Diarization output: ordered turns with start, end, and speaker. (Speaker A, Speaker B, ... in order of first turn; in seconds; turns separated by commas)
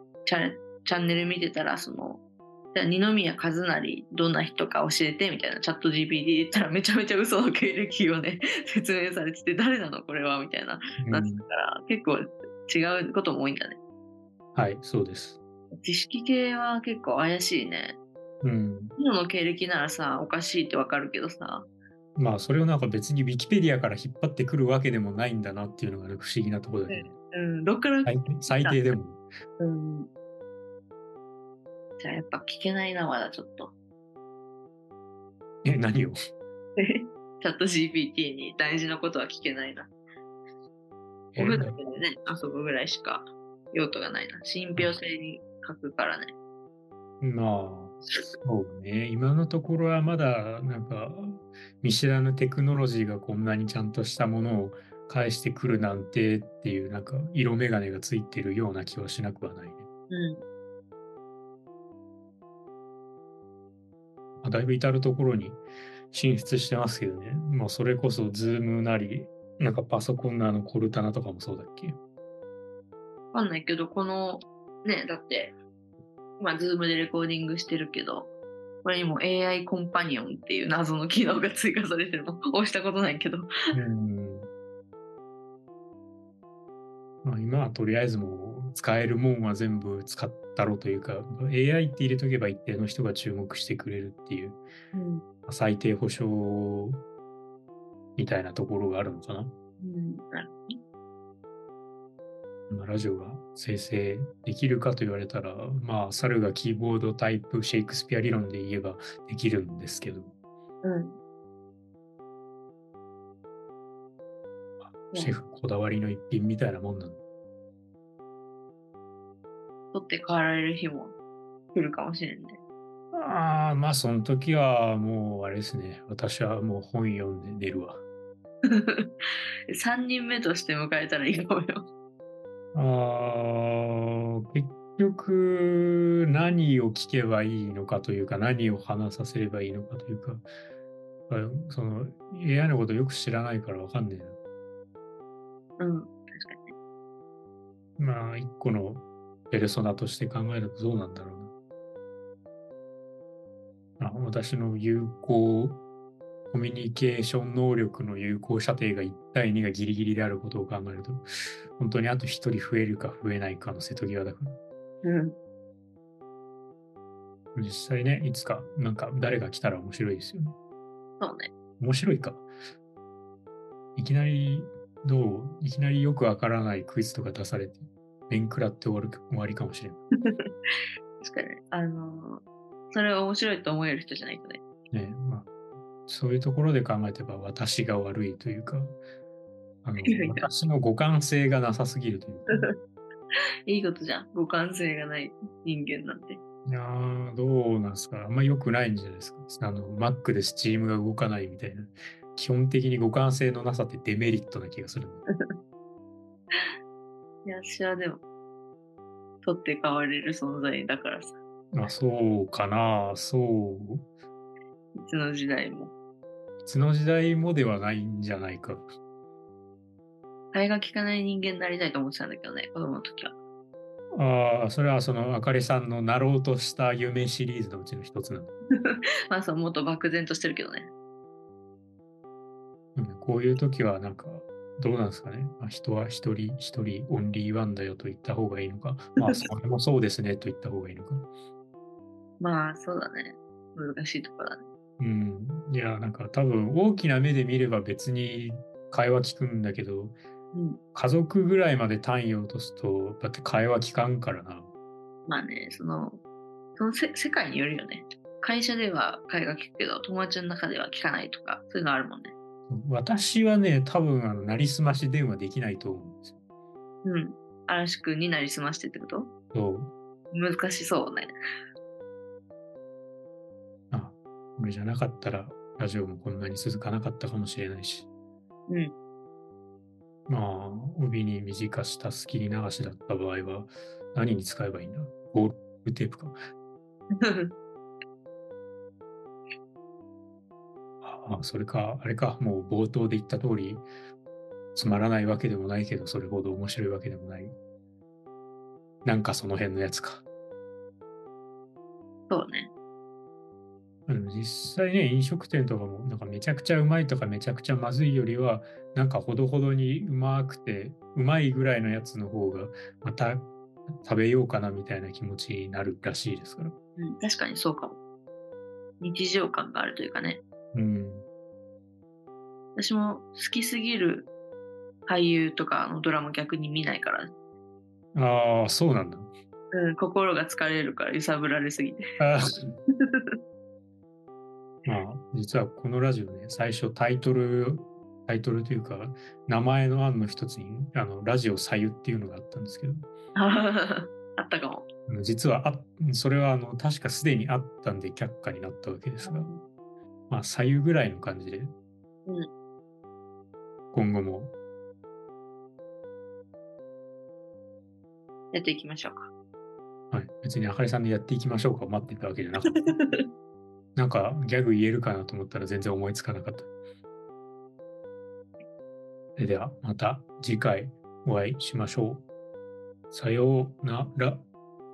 Speaker A: 0.2-2.2, Speaker A: 2.7-13.8, Speaker B: 11.0-11.4, Speaker B: 14.5-15.4, Speaker A: 15.7-18.0, Speaker B: 18.4-18.9, Speaker A: 19.0-21.6, Speaker B: 22.1-27.1, Speaker A: 26.9-28.8, Speaker B: 28.1-29.2, Speaker A: 29.6-30.1, Speaker A: 32.0-33.7, Speaker B: 35.6-36.2, Speaker A: 36.8-39.9, Speaker B: 41.3-41.8, Speaker A: 41.4-46.3, Speaker B: 47.2-59.9, Speaker A: 60.1-60.4, Speaker B: 64.4-65.6, Speaker B: 66.1-72.0, Speaker A: 73.3-75.5, Speaker A: 76.4-78.3, Speaker A: 78.8-83.5, Speaker B: 83.7-84.5, Speaker B: 87.2-94.6, Speaker A: 94.9-95.2, Speaker B: 95.5-97.0, Speaker B: 98.2-99.5, Speaker A: 99.8-100.8, Speaker B: 102.7-110.3, Speaker A: 110.8-111.2, Speaker B: 114.8-117.2, Speaker A: 119.9-121.1, Speaker A: 121.7-122.6, Speaker B: 123.1-128.0, Speaker A: 128.7-129.1, Speaker A: 129.7-131.9, Speaker B: 132.7-140.4, Speaker B: 141.3-144.4, Speaker A: 145.8-146.7, Speaker B: 148.0-151.5, Speaker B: 154.0-155.8, Speaker B: 156.5-161.2, Speaker B: 161.8-164.6, Speaker A: 165.0-165.3, Speaker B: 167.5-170.5, Speaker A: 171.2-171.5, Speaker B: 171.8-172.4, Speaker B: 173.9-180.0, Speaker A: 181.2-184.6, Speaker B: 184.9-185.5, Speaker B: 186.1-189.0, Speaker B: 189.8-192.7, Speaker A: 190.0-190.5, Speaker A: 193.7-196.4, Speaker B: 196.7-205.2, Speaker A: 207.4-208.2, Speaker A: 209.4-211.3, Speaker B: 211.7-214.0, Speaker A: 214.9-215.9, Speaker B: 216.6-218.9, Speaker A: 220.5-223.3, Speaker B: 224.1-228.5, Speaker A: 228.7-230.9, Speaker B: 232.9-241.3, Speaker A: 242.4-244.6, Speaker B: 245.0-250.2, Speaker B: 250.9-254.7, Speaker A: 255.3-256.2, Speaker A: 256.8-262.3, Speaker B: 262.7-266.4, Speaker A: 267.0-269.3, Speaker B: 269.5-269.9, Speaker A: 270.3-271.3, Speaker B: 273.9-278.1, Speaker B: 280.3-286.4, Speaker A: 287.1-287.5, Speaker B: 291.0-293.9, Speaker B: 294.7-297.5, Speaker B: 299.0-300.2, Speaker A: 302.3-302.7, Speaker B: 304.1-316.7, Speaker A: 317.0-318.0, Speaker A: 319.0-320.4, Speaker B: 320.7-321.2, Speaker A: 322.8-324.3, Speaker A: 325.1-327.3, Speaker B: 328.1-329.3, Speaker A: 329.7-332.1, Speaker B: 332.2-332.7, Speaker A: 333.0-333.4, Speaker B: 334.9-343.1, Speaker A: 343.4-344.9, Speaker B: 345.1-349.5, Speaker A: 349.2-349.6, Speaker B: 350.3-351.7, Speaker B: 353.9-354.5, Speaker A: 358.5-359.3, Speaker B: 360.1-362.9, Speaker A: 362.6-363.2, Speaker B: 363.9-366.7, Speaker B: 369.4-372.2, Speaker B: 373.1-374.4